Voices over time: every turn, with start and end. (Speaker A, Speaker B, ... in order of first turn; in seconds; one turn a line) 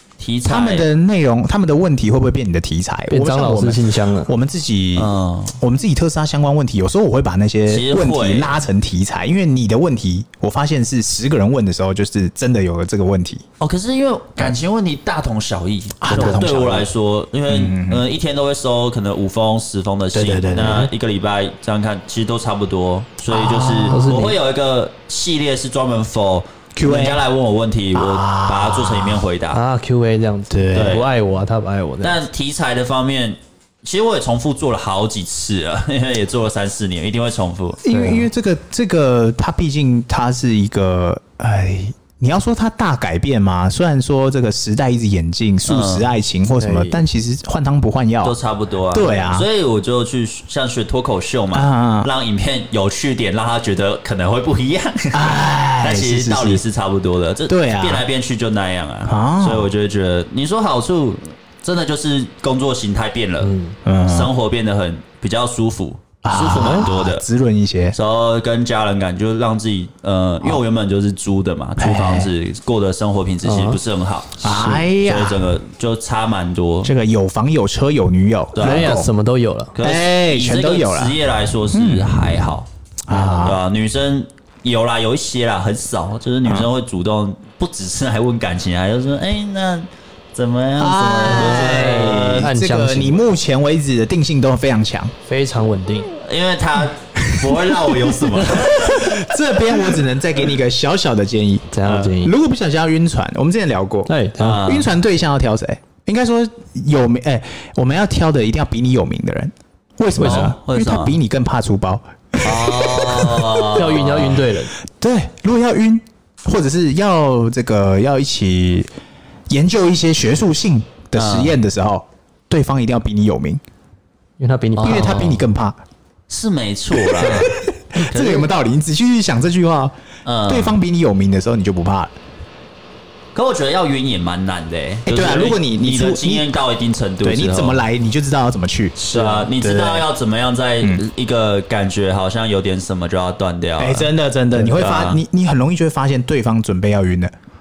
Speaker A: 0.2-0.9
Speaker B: 0.5-13.4
Speaker C: 3.1-4.3
Speaker A: 5.0-5.6
Speaker A: 7.7-8.5
Speaker A: 13.6-29.6
Speaker B: 16.0-16.9
Speaker B: 17.5-18.1
Speaker B: 20.1-20.9
Speaker B: 23.3-24.0
Speaker C: 23.9-24.4
Speaker B: 26.8-27.2
Speaker B: 27.9-29.2
Speaker C: 29.5-32.2
Speaker B: 30.5-31.0
Speaker A: 30.7-31.1
Speaker A: 32.0-37.8
Speaker B: 37.8-48.4
Speaker C: 37.9-38.3
Speaker A: 45.7-46.1
Speaker C: 46.6-47.0
Speaker A: 48.2-63.5
Speaker B: 48.9-49.5
Speaker B: 51.5-52.1
Speaker B: 55.1-56.6
Speaker B: 57.5-58.0
Speaker B: 59.1-59.7
Speaker C: 63.4-63.8
Speaker B: 63.9-64.3
Speaker A: 64.1-67.2
Speaker B: 66.2-68.0
Speaker C: 66.6-66.9
Speaker A: 67.9-76.9
Speaker B: 71.8-72.3
Speaker C: 73.4-73.8
Speaker B: 74.4-75.5
Speaker B: 76.8-79.1
Speaker A: 78.5-79.0
Speaker C: 78.6-79.7
Speaker A: 79.8-82.7
Speaker B: 79.8-81.2
Speaker B: 81.7-82.3
Speaker B: 83.1-83.6
Speaker A: 83.2-92.5
Speaker B: 90.8-95.1
Speaker C: 91.3-93.2
Speaker C: 95.2-96.1
Speaker A: 96.1-99.3
Speaker B: 97.3-114.1
Speaker C: 101.7-102.3
Speaker C: 104.1-104.7
Speaker A: 104.4-104.9
Speaker A: 110.2-111.2
Speaker C: 110.2-110.5
Speaker A: 112.4-114.4
Speaker C: 113.8-114.7
Speaker B: 115.0-118.9
Speaker B: 119.5-123.6
Speaker A: 121.2-121.6
Speaker C: 124.4-125.3
Speaker A: 124.8-125.5
Speaker B: 124.8-125.8
Speaker A: 126.3-128.5
Speaker B: 127.0-129.9
Speaker A: 130.3-130.8
Speaker B: 130.5-132.1
Speaker A: 133.3-137.8
Speaker B: 135.1-136.5
Speaker B: 137.2-140.1
Speaker A: 139.0-144.1
Speaker B: 143.8-147.3
Speaker A: 144.8-145.2